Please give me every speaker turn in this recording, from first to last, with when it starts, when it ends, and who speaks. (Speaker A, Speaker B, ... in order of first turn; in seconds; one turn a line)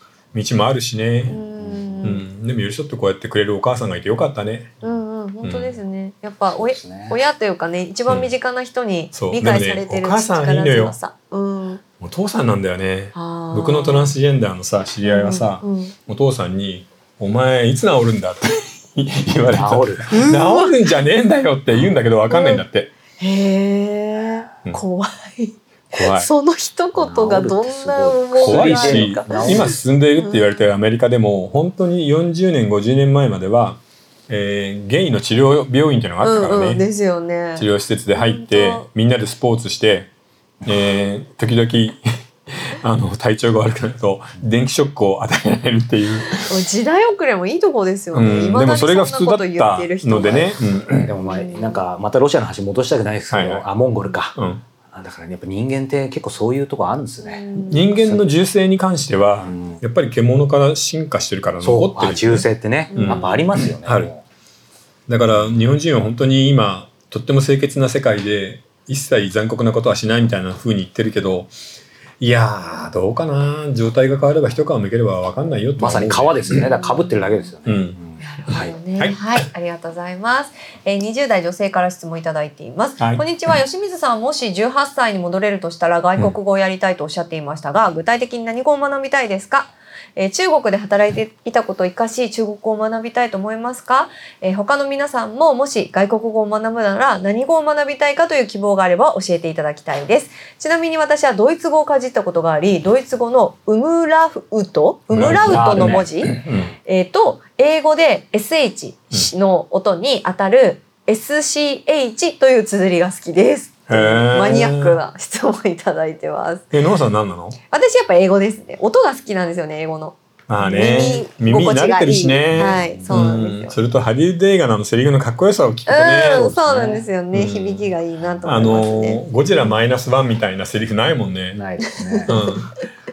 Speaker A: 0.3-1.4
Speaker B: 1.3-2.2
Speaker C: 1.4-2.1
Speaker A: 2.0-4.7
Speaker B: 4.8-11.8
Speaker A: 5.4-5.8
Speaker C: 6.5-7.2
Speaker A: 9.1-10.9
Speaker A: 12.0-22.9
Speaker B: 13.1-14.1
Speaker B: 15.0-15.9
Speaker C: 19.5-20.1
Speaker B: 20.1-20.8
Speaker B: 22.3-22.6
Speaker B: 23.2-30.4
Speaker A: 25.9-26.3
Speaker C: 27.0-29.8
Speaker A: 28.4-36.8
Speaker B: 36.2-38.9
Speaker A: 37.6-40.1
Speaker A: 40.6-46.6
Speaker B: 46.5-50.5
Speaker A: 48.1-51.1
Speaker C: 51.0-54.4
Speaker B: 51.2-51.8
Speaker A: 53.3-53.7
Speaker A: 54.4-54.6
Speaker C: 54.9-58.3
Speaker B: 57.2-57.9
Speaker A: 57.7-64.1
Speaker C: 59.4-59.8
Speaker C: 61.6-64.2
Speaker B: 62.9-63.4
Speaker A: 65.1-71.5
Speaker A: 72.2-76.7
Speaker C: 75.8-78.8
Speaker B: 76.6-77.5
Speaker A: 77.7-78.0
Speaker B: 78.2-116.7
Speaker A: 78.5-79.3
Speaker A: 83.0-83.5
Speaker A: 105.1-106.8
Speaker C: 105.1-106.4
Speaker A: 113.9-115.0
Speaker A: 116.7-117.6
Speaker B: 117.7-123.8
Speaker A: 120.5-126.5
Speaker C: 122.5-123.2
Speaker B: 125.9-129.7
Speaker C: 126.3-127.1
Speaker A: 127.3-127.9
Speaker C: 128.4-128.8
Speaker A: 128.4-131.6
Speaker C: 131.5-132.3
Speaker B: 131.9-132.7
Speaker A: 132.3-132.8